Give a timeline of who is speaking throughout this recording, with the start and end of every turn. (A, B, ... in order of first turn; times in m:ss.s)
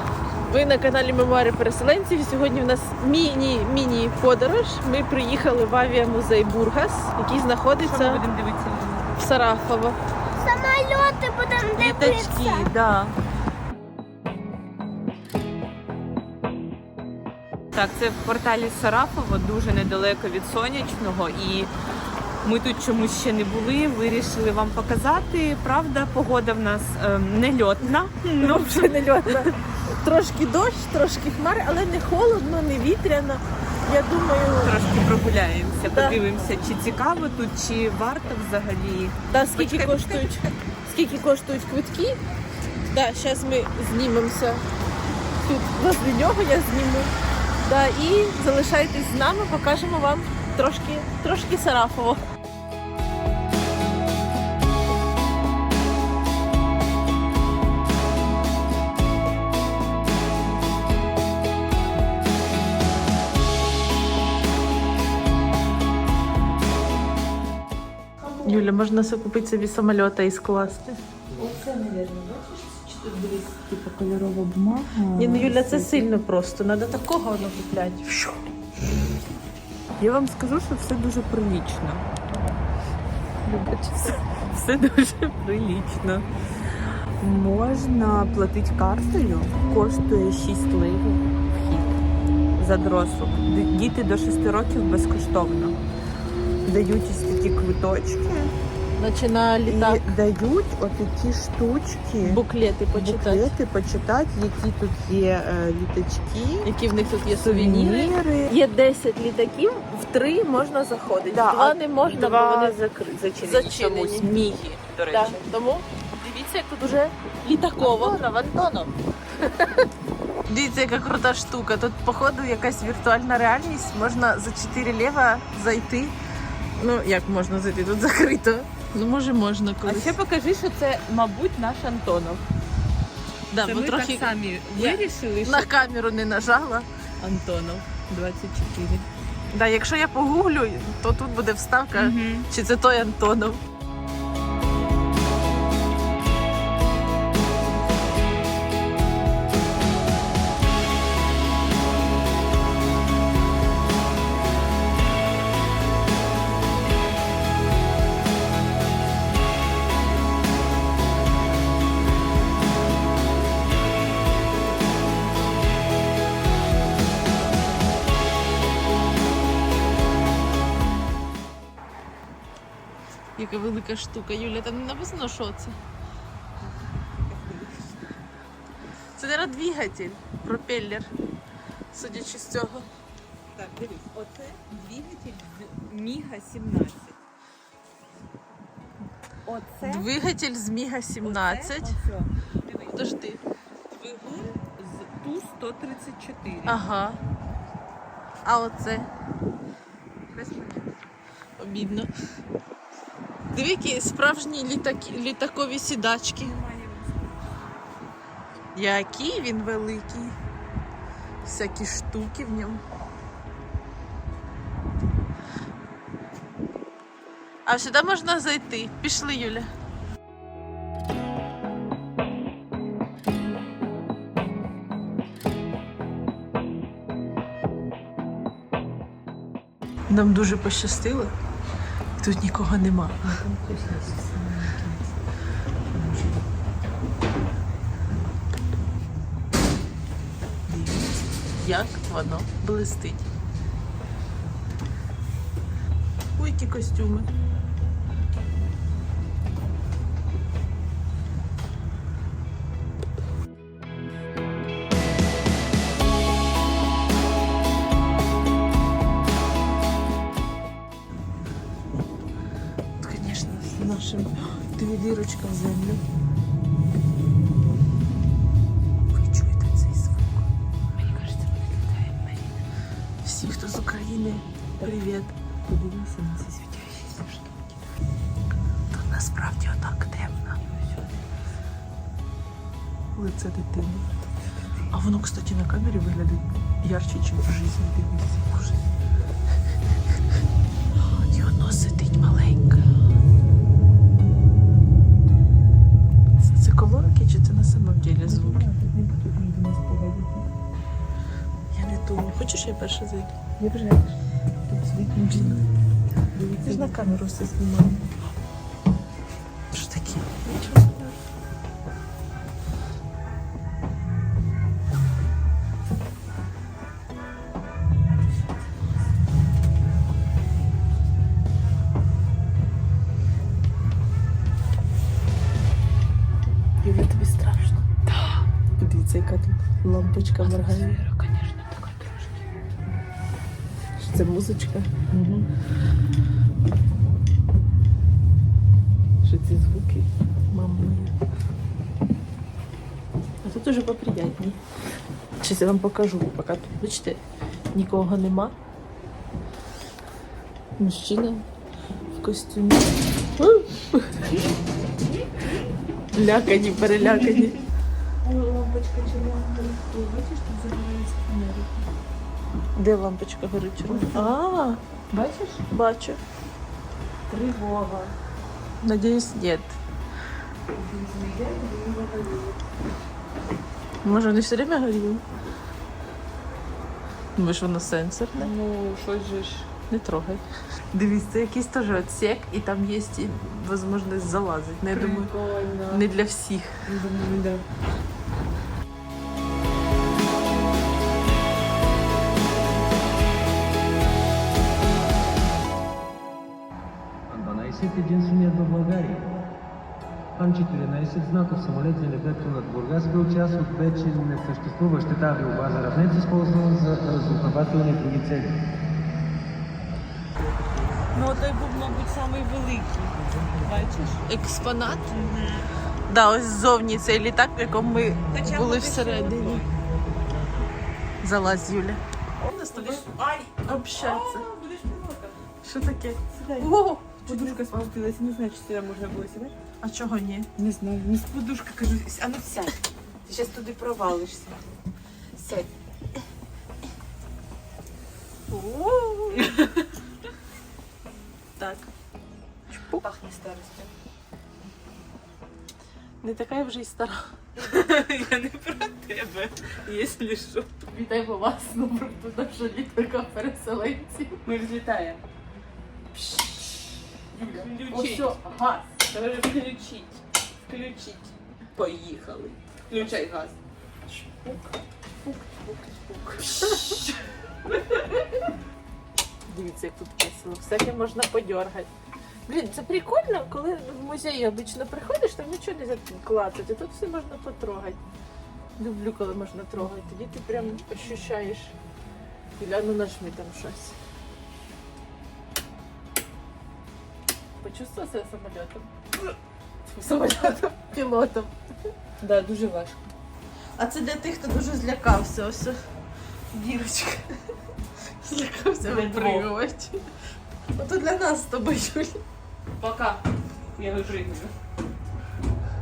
0:00.5-0:08.2 A
0:07.7-0:09.1 B
0:09.2-0:10.0 A
0:10.4-0:12.7 C
0:11.7-0:13.2 B
0:17.7-0:21.7 B
0:22.4-0:29.5 B
0:28.4-0:34.7 A
0:34.6-0:40.4 B
0:35.9-0:36.2 A
0:39.3-0:42.2 A
0:42.9-0:44.6 A
0:45.4-0:47.1 A
0:47.6-0:52.2 A
1:08.4-1:11.0 A
1:11.4-1:16.1 B
1:15.2-1:18.3 A
1:20.0-1:22.0 B
1:23.5-1:26.2 B
1:27.2-1:31.9 B
1:32.6-1:35.8 B
1:36.6-1:38.5 B
1:39.0-1:40.1 A
1:39.7-1:42.4 B
1:42.2-1:43.5 A
1:42.9-1:46.7 B
1:46.6-1:52.8 A
1:47.4-1:48.5 B
1:51.3-1:55.4 B
1:53.4-1:54.4 A
1:55.1-1:58.2 A
1:57.8-1:58.9 B
2:00.5-2:06.2 A
2:06.8-2:10.2 A
2:09.8-2:12.4 B
2:13.5-2:17.7 A
2:13.6-2:15.8 B
2:17.7-2:19.0 B
2:19.5-2:23.6 A
2:22.0-2:22.5 B
2:53.4-2:55.8 A
2:57.0-2:58.0 B
2:59.2-3:01.1 A
3:01.9-3:02.9 A
3:03.6-3:07.2 B
3:09.4-3:10.1 B
3:09.8-3:12.0 A
3:11.2-3:13.1 B
3:12.9-3:13.4 A
3:13.9-3:16.8 B
3:16.7-3:17.2 A
3:18.4-3:19.1 A
3:20.3-3:21.0 B
3:21.6-3:22.1 A
3:23.5-3:26.6 A
3:26.4-3:27.8 B
3:28.8-3:30.4 A
3:31.4-3:32.8 A
3:37.7-3:39.7 A
3:50.1-3:51.3 A
3:52.2-3:53.4 A
3:53.4-3:55.0 B
4:00.7-4:01.0 B
4:01.6-4:03.2 A
4:06.4-4:07.3 A
4:23.0-4:26.0 A
4:29.2-4:30.4 A
4:31.0-4:32.6 B
4:33.2-4:35.3 A
4:35.7-4:37.7 B
4:38.9-4:40.6 A
4:43.2-4:44.1 A
4:44.9-4:48.8 A
4:51.3-4:52.8 A
4:56.4-4:58.6 A
4:58.2-5:00.5 B
5:01.7-5:03.5 A
5:03.6-5:04.1 B
5:04.7-5:05.6 B
5:05.1-5:05.6 A
5:06.4-5:07.0 B
5:06.6-5:08.0 A
5:09.7-5:11.1 A
5:26.8-5:27.8 A
5:28.8-5:31.0 A
5:30.4-5:32.4 B
5:34.0-5:35.4 A
5:39.2-5:41.1 A
5:43.4-5:44.6 A
5:45.4-5:47.2 A
5:47.7-5:48.6 A
5:50.8-5:51.4 A
5:52.1-5:54.3 A
5:56.1-5:57.6 A
5:58.2-6:01.8 B
6:02.8-6:04.8 A
6:03.8-6:04.4 B
6:05.1-6:05.6 B
6:05.7-6:06.2 A
6:07.3-6:08.1 B
6:08.8-6:09.8 A
6:10.7-6:12.6 B
6:14.0-6:15.2 A
6:17.4-6:18.5 A
6:18.4-6:19.7 B
6:19.9-6:20.4 A
6:20.9-6:25.3 A
6:24.8-6:26.0 B
6:25.9-6:26.8 A
6:26.9-6:27.6 B
6:37.3-6:39.3 D
6:40.4-6:48.6 D
6:51.1-6:54.2 B
6:54.3-6:55.1 A
6:55.1-6:55.7 B
6:56.1-6:59.7 A
6:58.3-6:59.7 B
7:01.2-7:03.0 A
7:02.4-7:05.4 B
7:03.6-7:04.5 A
7:05.6-7:07.9 A
7:06.3-7:09.5 B
7:09.8-7:10.5 A
7:10.6-7:14.6 B
7:15.4-7:15.7 B
7:18.5-7:19.5 A
7:19.4-7:19.9 B
7:21.6-7:21.9 A
7:22.7-7:23.0 A
7:23.0-7:23.9 B
7:26.2-7:27.3 A
7:27.6-7:30.8 B
7:30.9-7:34.4 A
7:34.4-7:35.2 B
7:36.2-7:36.4 A
7:37.3-7:38.4 B
7:37.5-7:39.0 A
7:39.0-7:43.6 B
7:44.1-7:44.6 A
7:45.2-7:47.2 B
7:47.7-7:48.2 B
7:49.5-7:51.9 A
7:52.5-7:58.0 A
7:58.8-8:01.7 A
8:02.6-8:04.0 A
8:07.6-8:08.9 A
8:09.9-8:11.5 A
8:12.2-8:13.1 B
8:13.8-8:15.8 A
8:16.5-8:17.3 A
8:18.2-8:20.0 A
8:18.8-8:19.5 B
8:20.8-8:22.2 A
8:22.8-8:24.5 B